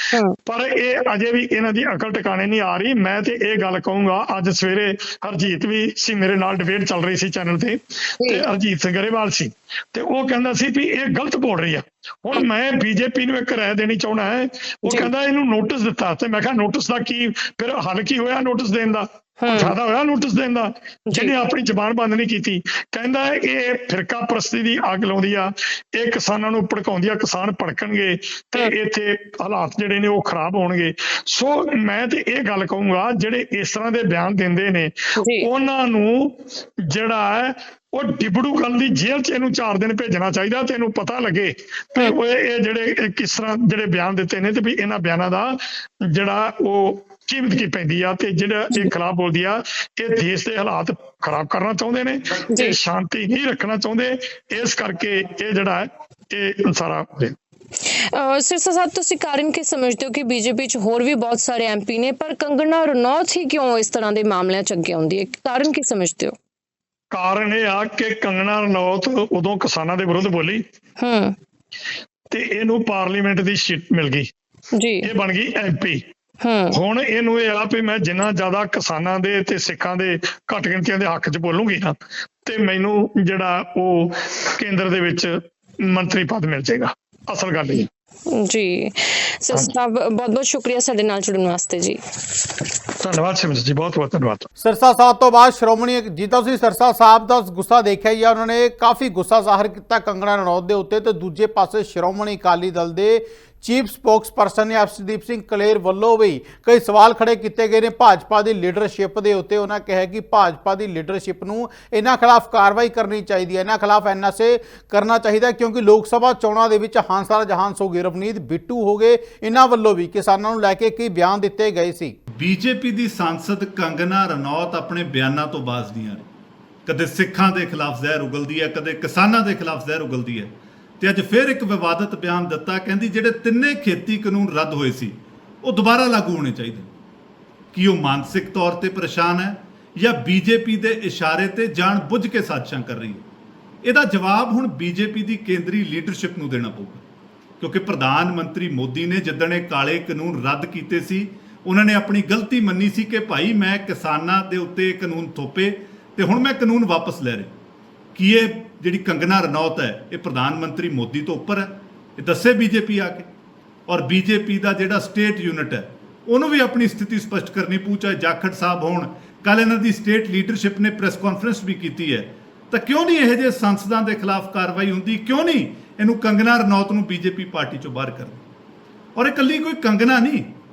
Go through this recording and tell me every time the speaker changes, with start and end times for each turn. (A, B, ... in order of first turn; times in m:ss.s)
0:00.4-0:36.4 A
0:19.4-0:19.8 B
0:36.9-0:45.6 A
0:46.1-0:57.3 A
0:52.5-0:52.7 B
0:58.0-1:06.4 B
1:07.1-1:10.6 A
1:11.0-1:11.3 B
1:12.3-1:14.3 A
1:14.7-1:15.1 B
1:15.0-1:16.0 A
1:16.4-1:16.8 B
1:16.7-1:21.9 A
1:22.4-1:25.3 A
1:25.8-1:27.9 A
1:28.3-1:32.0 B
1:33.0-1:34.5 A
1:34.6-2:02.1 C
2:02.4-2:06.2 D
2:06.8-2:16.9 D
2:17.7-2:23.2 D
2:23.8-2:27.0 D
2:27.6-2:37.5 D
2:38.1-2:43.3 D
2:43.9-2:58.4 D
2:59.2-3:00.5 D